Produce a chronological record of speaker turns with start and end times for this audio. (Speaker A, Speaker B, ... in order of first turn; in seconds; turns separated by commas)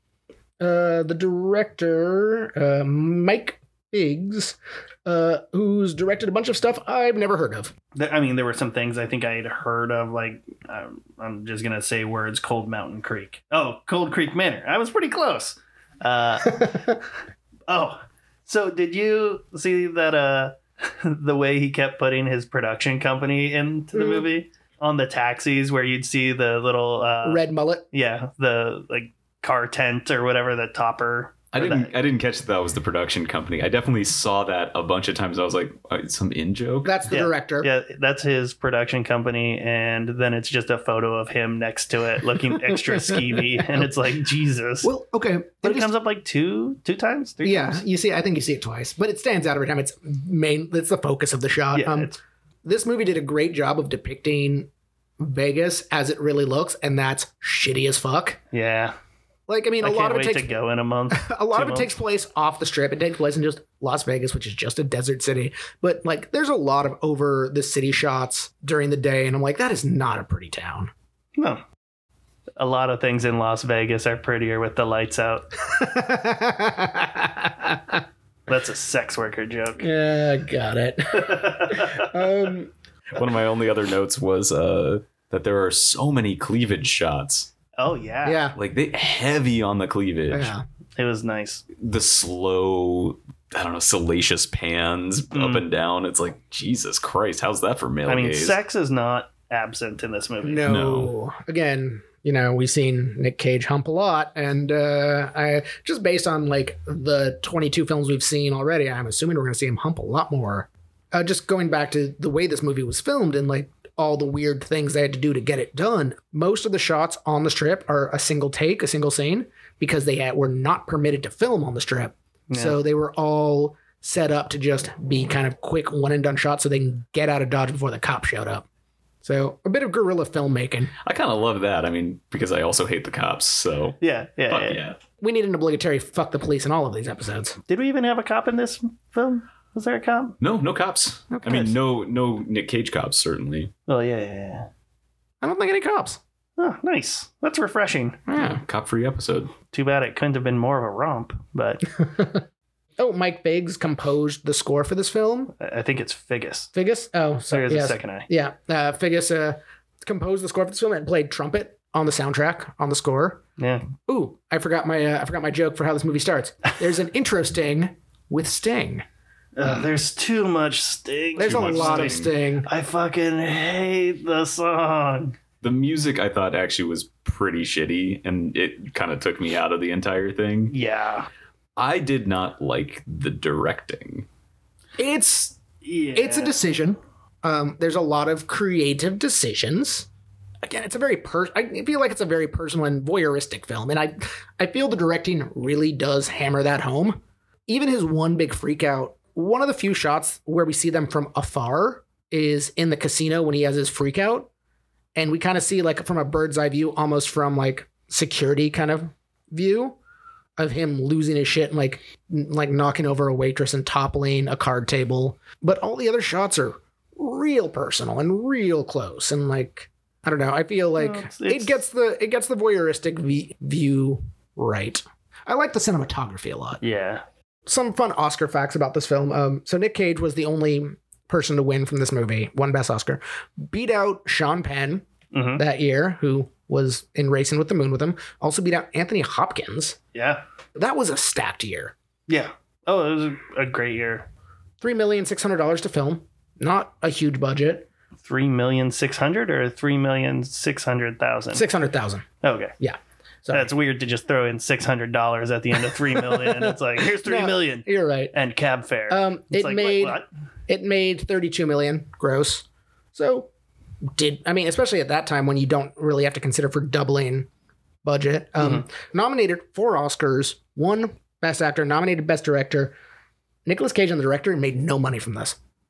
Speaker A: 0.6-7.7, Speaker B: 8.0-17.0, Speaker B: 17.7-31.9, Speaker A: 23.9-24.3, Speaker A: 27.2-27.9, Speaker C: 31.5-37.0, Speaker A: 36.9-37.7, Speaker B: 37.1-44.9, Speaker A: 43.0-43.9, Speaker A: 44.8-45.9, Speaker B: 45.6-47.8, Speaker A: 47.4-54.7, Speaker B: 51.7-52.2, Speaker A: 55.2-58.4, Speaker B: 58.5-59.0, Speaker A: 59.5-60.5, Speaker B: 59.8-61.9, Speaker A: 61.1-70.9, Speaker B: 71.4-71.6, Speaker B: 72.6-75.5, Speaker A: 75.7-78.0, Speaker B: 78.5-79.9, Speaker A: 79.8-82.7, Speaker B: 81.2-82.1, Speaker C: 83.2-87.5, Speaker B: 87.8-88.4, Speaker A: 88.2-88.6, Speaker C: 88.6-90.5, Speaker A: 90.3-90.6, Speaker B: 91.0-91.6, Speaker C: 91.8-98.6, Speaker B: 95.3-95.6, Speaker B: 98.1-100.7, Speaker A: 100.4-128.7, Speaker C: 100.7-101.1, Speaker B: 122.5-122.8, Speaker A: 129.2-130.9, Speaker C: 131.0-135.0, Speaker B: 134.0-134.8, Speaker A: 135.2-137.6, Speaker B: 137.7-140.4, Speaker C: 140.4-143.7, Speaker A: 141.3-141.8, Speaker B: 143.9-144.7, Speaker A: 145.4-146.2, Speaker B: 146.6-148.2, Speaker A: 148.3-148.6, Speaker C: 148.5-149.5, Speaker B: 149.7-151.9, Speaker A: 152.0-152.4, Speaker A: 153.0-155.5, Speaker B: 155.6-156.7, Speaker A: 156.7-163.4, Speaker B: 157.5-158.3, Speaker B: 163.6-163.9, Speaker A: 164.0-169.1, Speaker B: 169.6-175.4, Speaker A: 171.4-172.7, Speaker C: 171.4-172.3, Speaker C: 175.6-180.8, Speaker B: 180.7-181.3, Speaker C: 181.8-184.3, Speaker A: 185.0-185.6, Speaker B: 185.8-186.6, Speaker A: 186.2-190.1, Speaker A: 190.6-204.5, Speaker A: 205.2-210.0, Speaker A: 210.6-226.8, Speaker B: 221.0-221.8, Speaker B: 226.8-227.2, Speaker A: 227.7-235.1, Speaker B: 235.3-235.6, Speaker A: 235.6-240.0, Speaker B: 240.1-240.4, Speaker A: 240.8-241.9, Speaker B: 242.3-244.3, Speaker A: 244.8-247.9, Speaker B: 248.2-251.7, Speaker A: 251.5-252.3, Speaker B: 252.4-252.7, Speaker A: 252.8-253.7, Speaker B: 253.5-260.3, Speaker A: 256.2-258.3, Speaker A: 259.1-263.5, Speaker A: 264.1-267.5, Speaker A: 268.0-272.9, Speaker A: 273.7-275.6